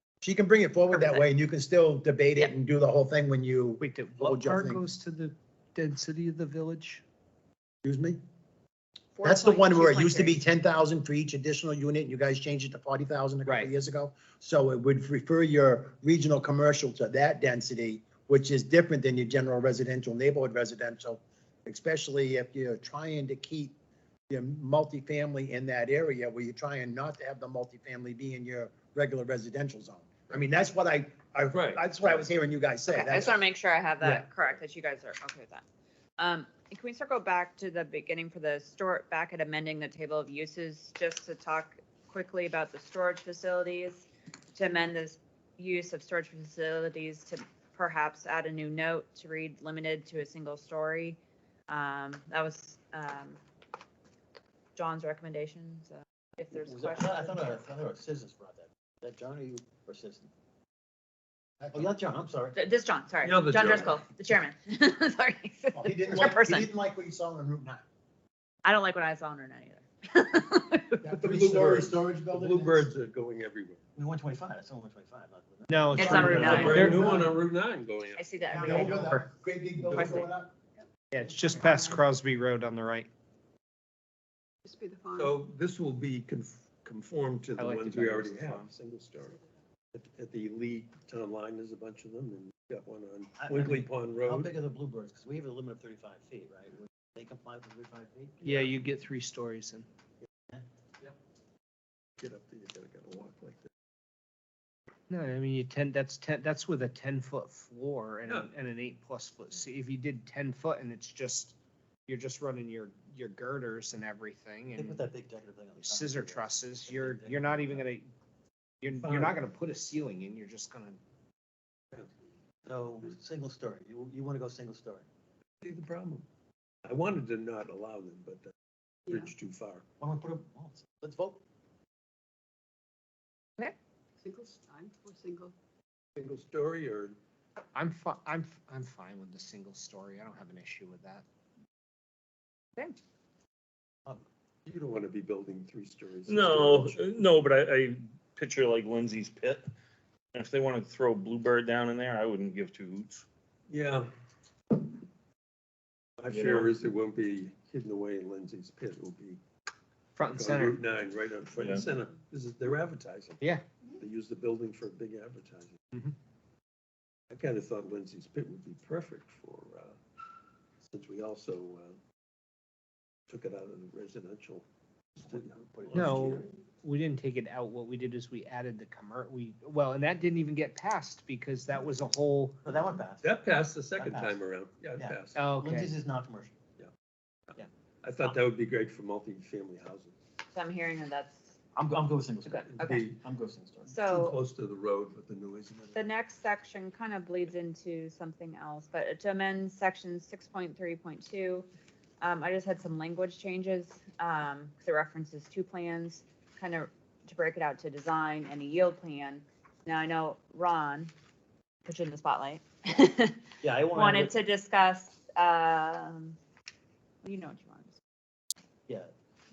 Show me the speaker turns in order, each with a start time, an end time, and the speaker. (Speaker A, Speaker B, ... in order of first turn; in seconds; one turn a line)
Speaker A: 0.2-4.8
Speaker B: 0.9-1.2
Speaker C: 3.8-7.0
Speaker A: 7.8-8.2
Speaker B: 9.1-10.4
Speaker A: 9.2-23.7
Speaker C: 13.4-13.7
Speaker A: 24.3-33.4
Speaker D: 31.5-32.2
Speaker B: 32.9-35.6
Speaker A: 34.0-34.3
Speaker B: 36.2-53.4
Speaker B: 54.8-57.6
Speaker E: 56.5-60.3
Speaker A: 61.6-62.0
Speaker E: 61.7-62.6
Speaker B: 62.5-66.7
Speaker D: 63.2-64.0
Speaker A: 65.7-67.8
Speaker B: 68.6-70.9
Speaker A: 71.0-72.9
Speaker D: 71.1-73.8
Speaker E: 73.9-77.2
Speaker C: 75.7-77.1
Speaker B: 76.0-77.0
Speaker A: 76.0-77.3
Speaker D: 76.2-79.0
Speaker B: 78.1-79.2
Speaker A: 78.5-80.5
Speaker B: 79.9-80.3
Speaker C: 81.1-83.1
Speaker F: 84.6-85.3
Speaker D: 85.1-89.4
Speaker C: 87.6-88.7
Speaker D: 89.9-94.5
Speaker E: 93.3-98.7
Speaker C: 98.4-99.8
Speaker D: 102.2-103.7
Speaker C: 105.1-111.5
Speaker D: 108.2-108.5
Speaker C: 112.1-115.0
Speaker E: 114.7-117.9
Speaker C: 115.8-118.1
Speaker C: 118.8-121.0
Speaker D: 118.9-119.4
Speaker E: 122.7-125.0
Speaker D: 125.6-126.2
Speaker D: 126.8-128.5
Speaker D: 129.1-129.8
Speaker E: 130.0-131.4
Speaker F: 134.2-135.5
Speaker D: 136.2-137.2
Speaker C: 137.7-141.2
Speaker D: 144.7-147.2
Speaker G: 146.3-149.7
Speaker G: 150.3-153.2
Speaker D: 153.7-154.1
Speaker D: 156.2-159.4
Speaker G: 156.3-156.7
Speaker C: 160.2-160.8
Speaker D: 160.2-163.4
Speaker G: 161.6-161.8
Speaker D: 164.0-165.8
Speaker D: 167.3-170.0
Speaker D: 170.8-172.0
Speaker D: 173.3-174.7
Speaker D: 175.2-176.5
Speaker E: 175.2-176.4
Speaker C: 175.9-182.6
Speaker E: 182.7-183.3
Speaker D: 183.2-185.4
Speaker E: 183.9-186.6
Speaker C: 185.3-185.9
Speaker D: 187.5-190.1
Speaker B: 190.5-191.6
Speaker E: 191.7-193.9
Speaker D: 192.8-193.2
Speaker B: 193.9-194.4
Speaker D: 194.0-196.1
Speaker B: 195.9-201.7
Speaker B: 202.2-211.1
Speaker B: 211.8-216.4
Speaker E: 213.6-214.3
Speaker B: 217.2-218.0